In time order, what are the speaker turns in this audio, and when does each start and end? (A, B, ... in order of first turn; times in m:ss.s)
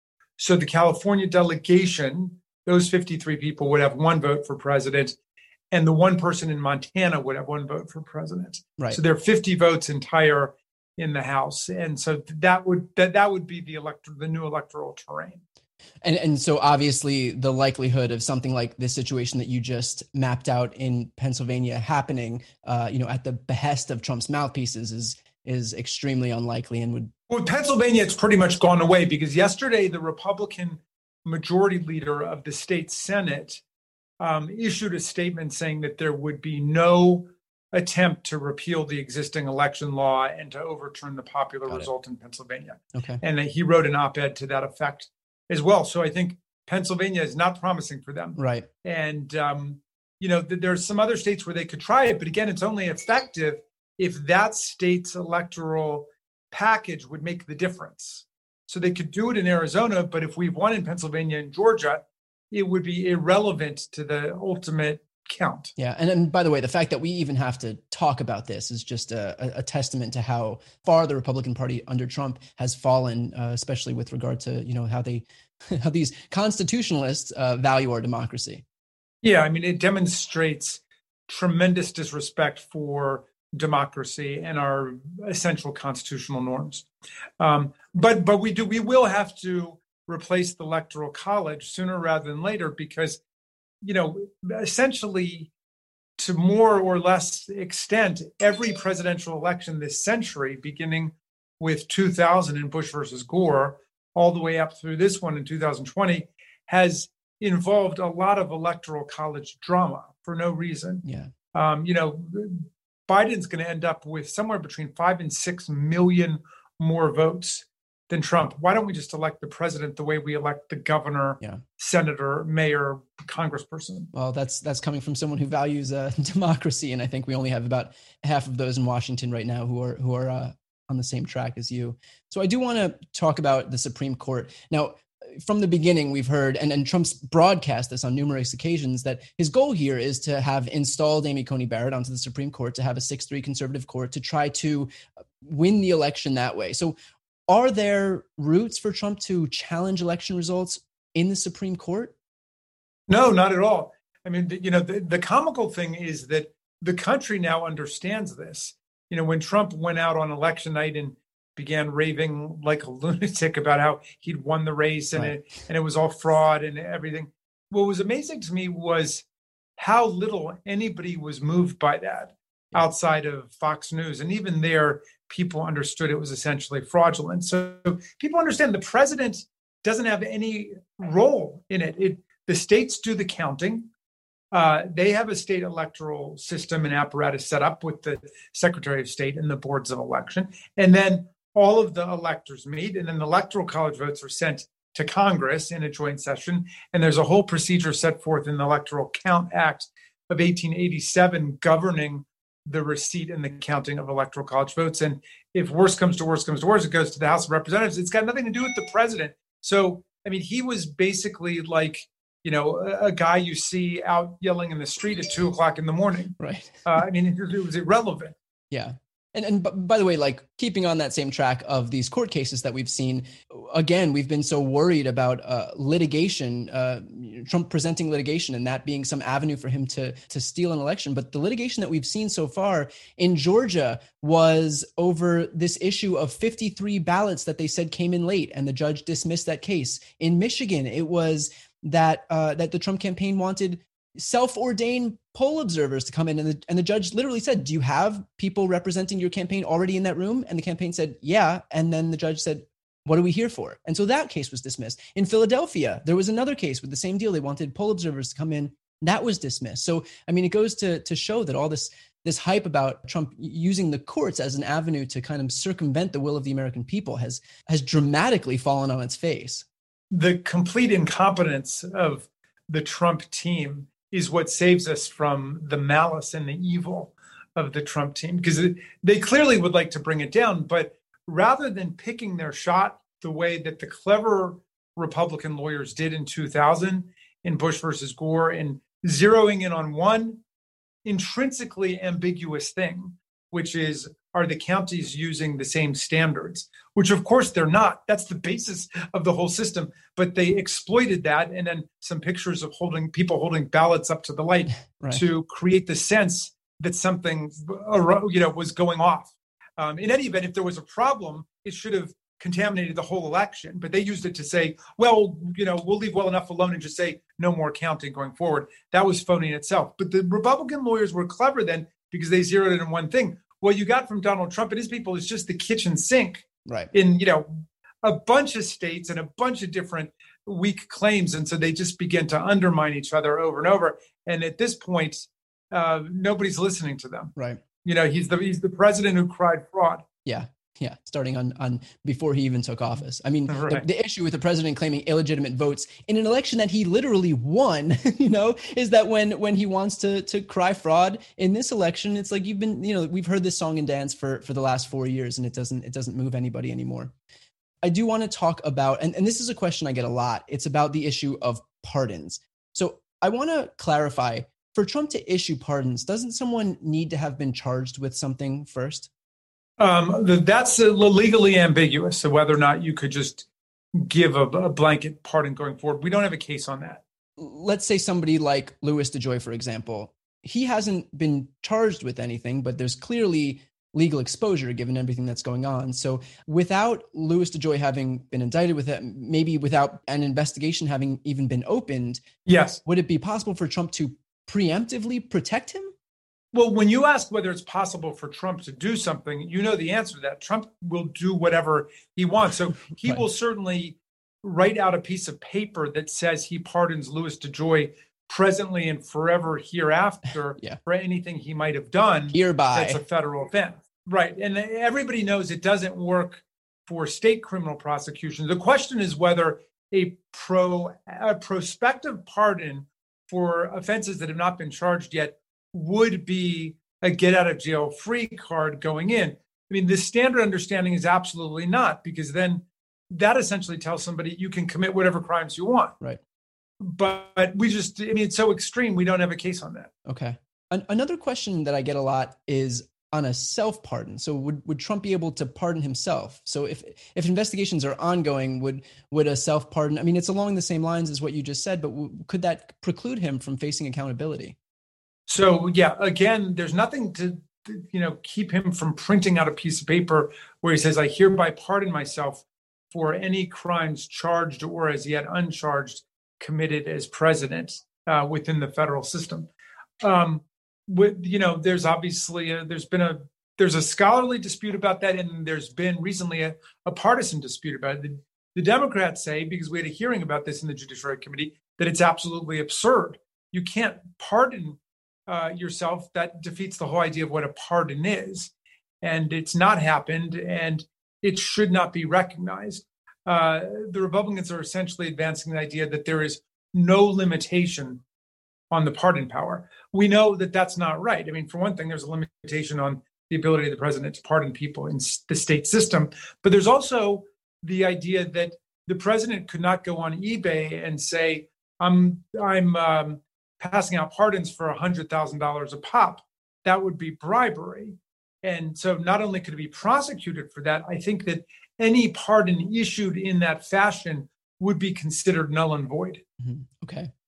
0:00.4-0:05.2 A
0:05.7-0:15.4 A
0:16.0-0:27.1 B
0:27.3-0:33.6 A
0:34.2-1:05.7 A
0:42.9-0:43.2 B
0:48.4-0:48.7 B
1:05.8-1:18.6 B
1:19.2-1:26.8 A
1:27.4-1:33.2 A
1:33.8-1:35.5 A
1:36.2-2:04.1 A
1:51.0-1:51.3 B
2:04.1-2:24.9 B
2:25.4-2:26.9 B
2:27.5-2:32.1 B
2:33.1-2:49.2 A
2:49.8-3:03.9 A
3:04.5-3:38.3 A
3:36.4-3:36.8 B
3:38.7-4:29.6 B
4:30.1-4:50.4 A
4:51.0-5:27.5 A
5:28.0-5:37.3 A
5:37.4-5:37.6 B
5:37.8-5:40.0 A
5:40.2-5:57.1 B
5:43.5-5:43.8 A
5:57.8-6:09.1 B
6:09.8-6:17.0 A
6:17.4-6:32.2 B
6:32.4-6:32.8 A
6:32.8-6:35.9 B
6:36.5-7:15.9 A
6:52.3-6:53.0 B
7:16.8-7:19.9 A
7:20.0-7:34.6 B
7:35.3-7:49.5 A
7:50.0-8:08.5 A
8:09.0-8:18.0 A
8:18.7-8:46.2 A
8:46.4-8:47.1 B